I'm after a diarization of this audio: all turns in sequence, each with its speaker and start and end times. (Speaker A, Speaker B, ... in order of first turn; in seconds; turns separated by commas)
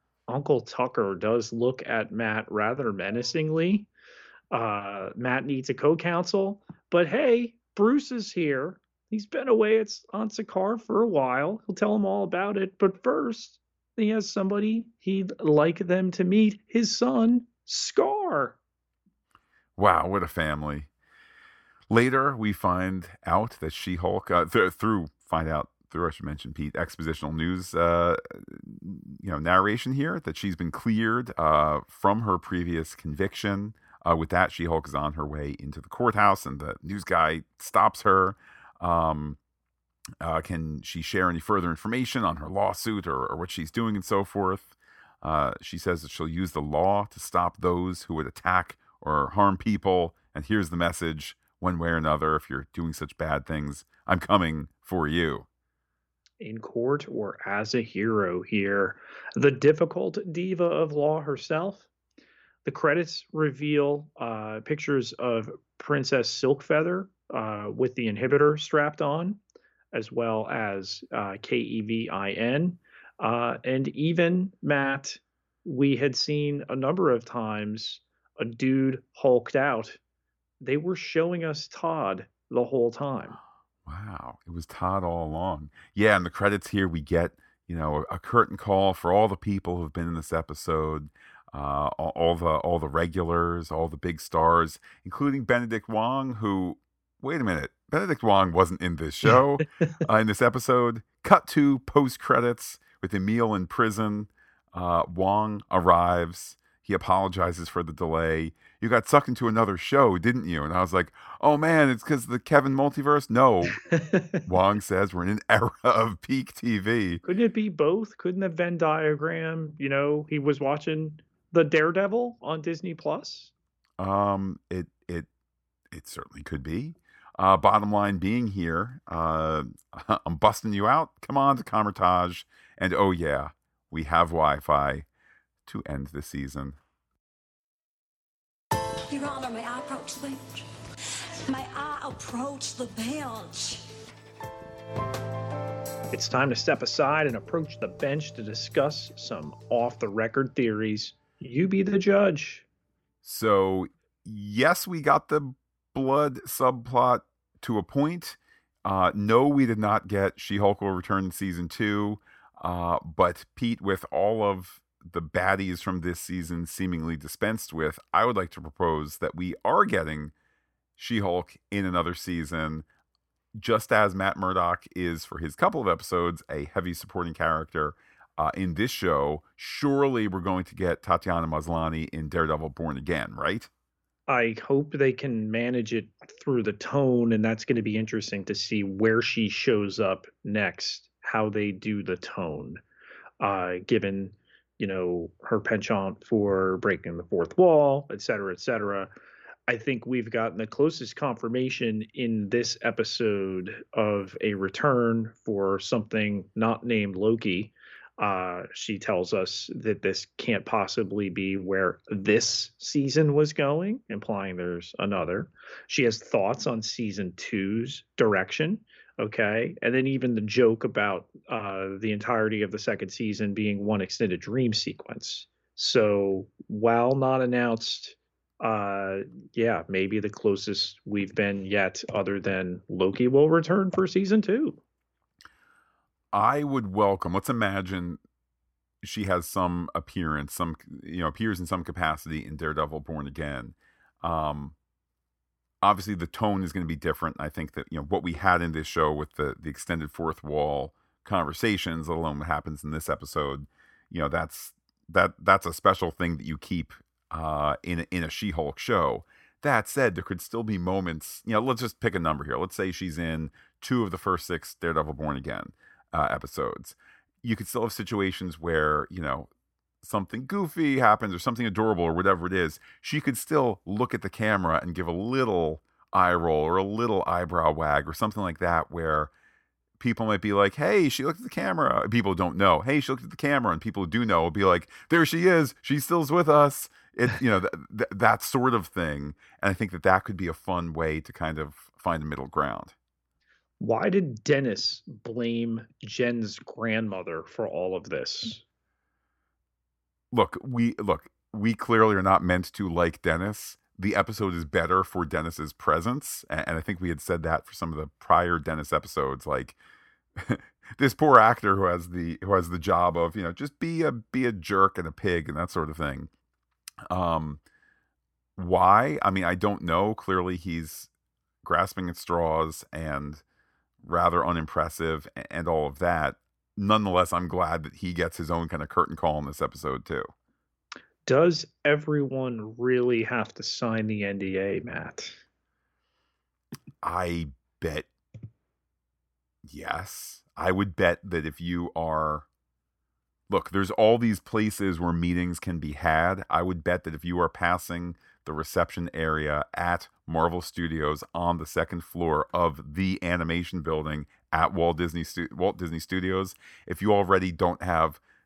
Speaker A: 0.3-3.9, Speaker A: 4.5-18.6, Speaker B: 19.8-20.9, Speaker B: 21.9-39.4, Speaker B: 40.2-55.5, Speaker A: 56.4-61.9, Speaker A: 62.6-69.4, Speaker A: 69.9-80.0, Speaker A: 80.6-83.4, Speaker B: 83.8-113.8, Speaker A: 113.9-114.3, Speaker B: 114.5-117.2, Speaker A: 117.2-123.5, Speaker B: 124.0-125.3, Speaker B: 125.9-135.1, Speaker B: 135.7-136.8, Speaker C: 139.1-143.8, Speaker A: 146.1-152.7, Speaker B: 153.2-170.3, Speaker B: 171.0-172.9, Speaker B: 173.6-183.7, Speaker A: 184.3-192.8, Speaker A: 193.4-199.1, Speaker A: 199.7-234.8, Speaker B: 236.3-238.2, Speaker B: 239.0-244.8, Speaker B: 245.8-269.5, Speaker B: 270.0-279.3, Speaker B: 280.0-292.9, Speaker A: 293.8-298.6, Speaker B: 300.3-309.8, Speaker B: 310.4-316.3, Speaker B: 317.1-317.6, Speaker B: 318.6-321.1, Speaker B: 321.6-323.4, Speaker B: 324.0-330.3, Speaker A: 331.3-335.4, Speaker B: 337.0-338.1, Speaker B: 339.6-342.5, Speaker B: 343.5-358.2